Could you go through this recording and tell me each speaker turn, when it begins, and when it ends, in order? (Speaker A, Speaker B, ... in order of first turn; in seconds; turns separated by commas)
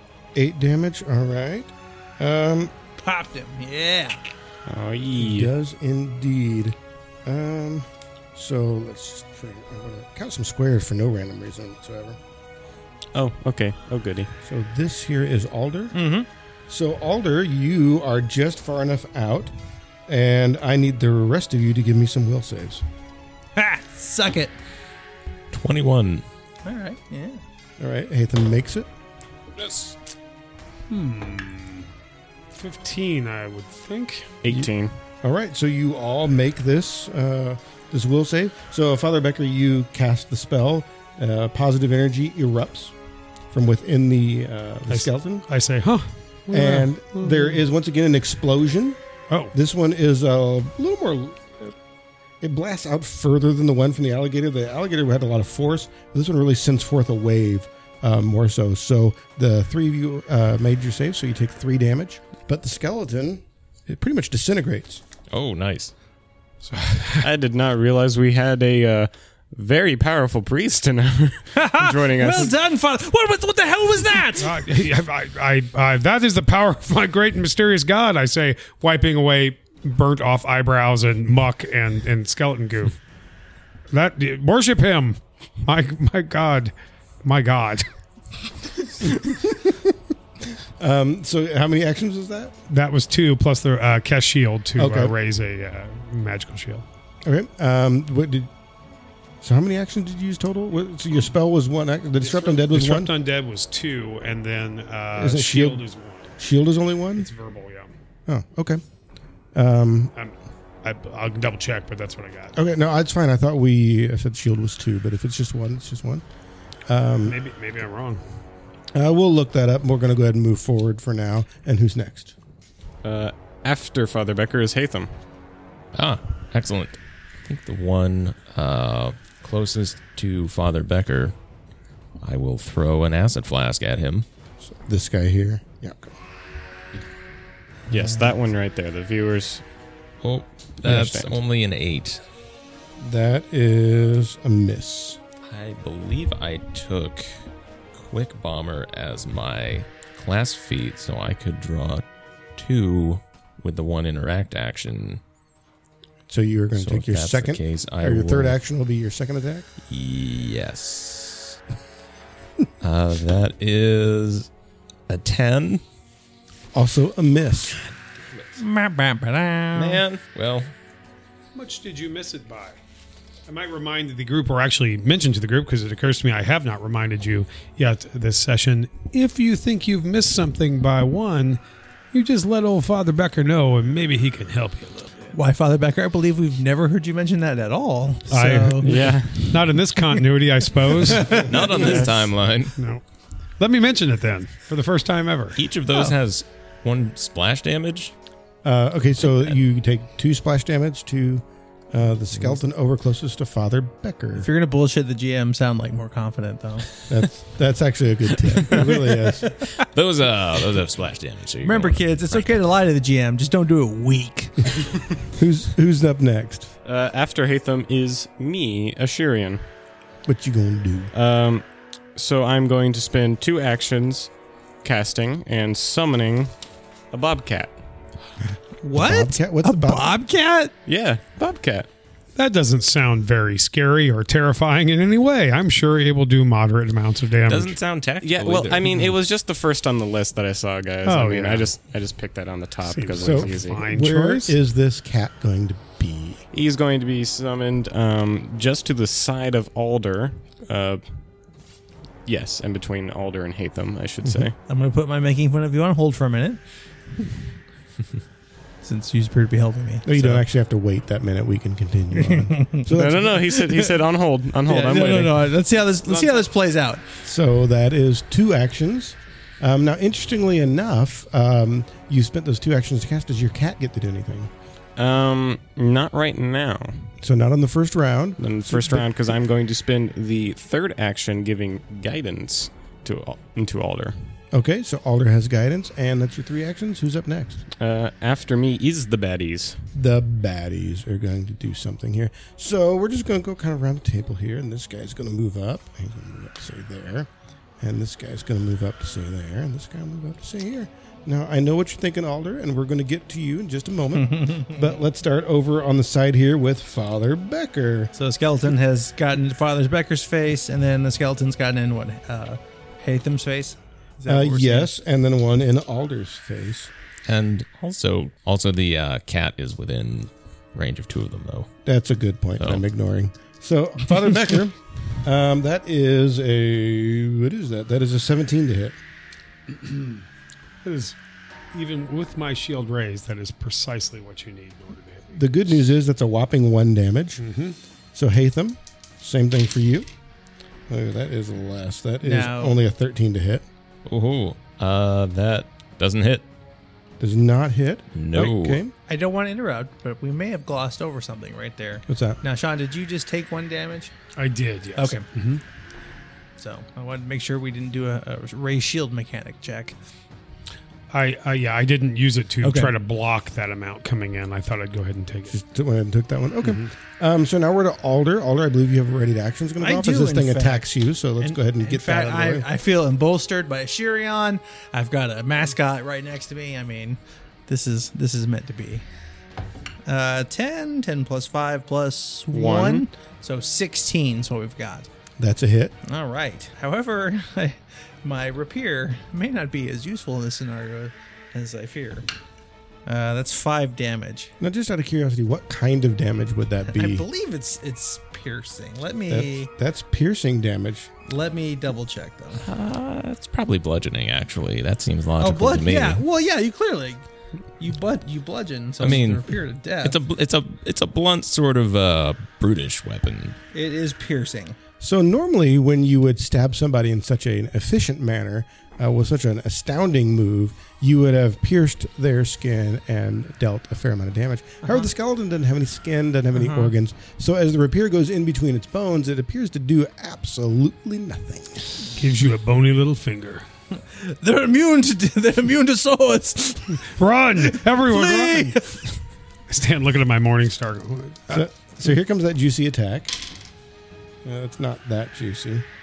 Speaker A: 0.3-2.7, Speaker B: 3.0-4.2, Speaker C: 4.7-5.5, Speaker A: 5.2-12.2, Speaker C: 13.1-14.3, Speaker A: 14.4-15.9, Speaker B: 15.9-16.3, Speaker A: 16.7-19.5, Speaker A: 20.1-22.8, Speaker B: 23.6-24.5, Speaker D: 25.5-26.2, Speaker B: 26.6-27.4, Speaker A: 27.8-28.9, Speaker E: 29.6-29.9, Speaker E: 30.9-31.9, Speaker E: 32.5-34.4, Speaker C: 34.4-34.9, Speaker A: 35.2-42.9, Speaker A: 43.5-45.4, Speaker E: 44.9-47.6, Speaker A: 46.5-49.0, Speaker A: 49.5-51.7, Speaker A: 52.4-65.0, Speaker D: 65.3-65.9, Speaker E: 66.6-67.3, Speaker C: 67.2-72.5, Speaker B: 71.5-74.6, Speaker E: 74.4-83.0, Speaker E: 83.9-86.7, Speaker E: 87.2-87.9, Speaker A: 90.8-92.5, Speaker E: 92.7-96.8, Speaker A: 94.8-95.1, Speaker A: 97.2-98.5, Speaker A: 99.4-103.1, Speaker E: 102.2-106.3, Speaker A: 105.2-105.8, Speaker A: 106.4-107.3, Speaker E: 107.2-107.9, Speaker A: 108.3-108.8, Speaker A: 109.5-110.1, Speaker E: 110.2-112.5, Speaker A: 112.5-116.2, Speaker A: 116.9-117.4, Speaker E: 117.2-118.2, Speaker A: 118.9-122.3, Speaker C: 123.0-125.1, Speaker D: 125.9-131.3, Speaker D: 132.2-134.2, Speaker A: 134.6-136.2, Speaker C: 137.9-139.6, Speaker D: 140.2-142.2, Speaker C: 140.8-141.3, Speaker A: 143.0-145.2, Speaker D: 145.4-147.3, Speaker D: 147.9-152.0, Speaker D: 152.6-155.2, Speaker A: 156.3-159.7, Speaker D: 156.8-158.6, Speaker D: 159.9-161.6, Speaker D: 162.8-164.5, Speaker D: 165.1-165.8, Speaker A: 166.7-167.8, Speaker B: 168.6-170.0, Speaker D: 169.7-170.7, Speaker E: 171.5-172.8, Speaker E: 173.5-181.6, Speaker E: 182.1-185.3, Speaker B: 185.3-189.2, Speaker E: 188.3-191.5, Speaker C: 188.8-189.5, Speaker B: 191.1-191.3, Speaker D: 191.3-192.7, Speaker C: 191.8-192.2, Speaker E: 192.8-193.0, Speaker E: 193.6-195.6, Speaker D: 195.6-198.1, Speaker A: 198.6-204.5, Speaker B: 204.3-206.9, Speaker A: 207.1-209.5, Speaker D: 209.8-212.6, Speaker B: 211.6-214.8, Speaker A: 215.3-216.7, Speaker C: 216.8-219.6, Speaker A: 220.2-221.1, Speaker C: 221.1-221.6, Speaker C: 222.2-226.5, Speaker C: 227.1-227.8, Speaker B: 228.8-230.7, Speaker A: 228.9-230.1, Speaker C: 230.8-231.9, Speaker E: 232.3-237.8, Speaker D: 237.4-239.1, Speaker C: 238.2-243.8, Speaker E: 241.0-241.7, Speaker E: 242.8-244.5, Speaker A: 243.2-246.4, Speaker C: 246.5-251.0, Speaker C: 252.2-254.5, Speaker A: 254.2-254.5, Speaker B: 254.7-256.6, Speaker B: 258.8-260.4, Speaker A: 260.0-263.7, Speaker B: 262.2-262.9, Speaker C: 262.9-266.5, Speaker B: 264.6-267.0, Speaker A: 267.2-274.5, Speaker C: 275.0-277.1, Speaker A: 277.2-279.1, Speaker C: 278.4-284.1, Speaker A: 284.5-287.6, Speaker C: 287.8-289.8, Speaker A: 289.9-297.3, Speaker A: 297.8-308.1, Speaker B: 304.1-304.8, Speaker B: 308.1-314.9, Speaker A: 314.3-316.9, Speaker D: 317.2-321.7, Speaker A: 321.9-329.0, Speaker E: 329.7-330.2, Speaker E: 330.8-331.1, Speaker E: 331.7-335.3, Speaker A: 335.3-337.4, Speaker E: 337.4-337.8, Speaker A: 338.1-340.1, Speaker A: 340.9-343.6, Speaker B: 342.2-342.8, Speaker D: 344.1-346.4, Speaker A: 347.2-348.9, Speaker D: 348.1-348.8, Speaker B: 349.1-354.1, Speaker A: 352.1-352.4, Speaker E: 354.4-355.6, Speaker B: 354.9-355.2, Speaker B: 356.6-359.9, Speaker E: 361.1-365.5, Speaker B: 362.6-362.9, Speaker A: 365.5-372.7, Speaker B: 369.8-379.0, Speaker B: 380.1-385.1, Speaker C: 382.5-383.0, Speaker A: 385.4-385.9, Speaker B: 386.1-392.3, Speaker B: 393.1-394.5, Speaker A: 394.6-397.2, Speaker B: 396.9-399.7, Speaker A: 399.3-401.1, Speaker B: 401.3-402.6, Speaker D: 402.6-406.2, Speaker B: 405.4-407.2, Speaker B: 407.8-410.1, Speaker D: 409.0-413.6, Speaker B: 413.7-414.8, Speaker A: 415.0-432.0, Speaker B: 426.6-426.9, Speaker E: 432.1-433.6, Speaker B: 434.1-437.0, Speaker E: 437.1-438.8, Speaker B: 437.6-439.1, Speaker E: 439.7-441.6, Speaker A: 441.5-443.4, Speaker A: 444.4-445.8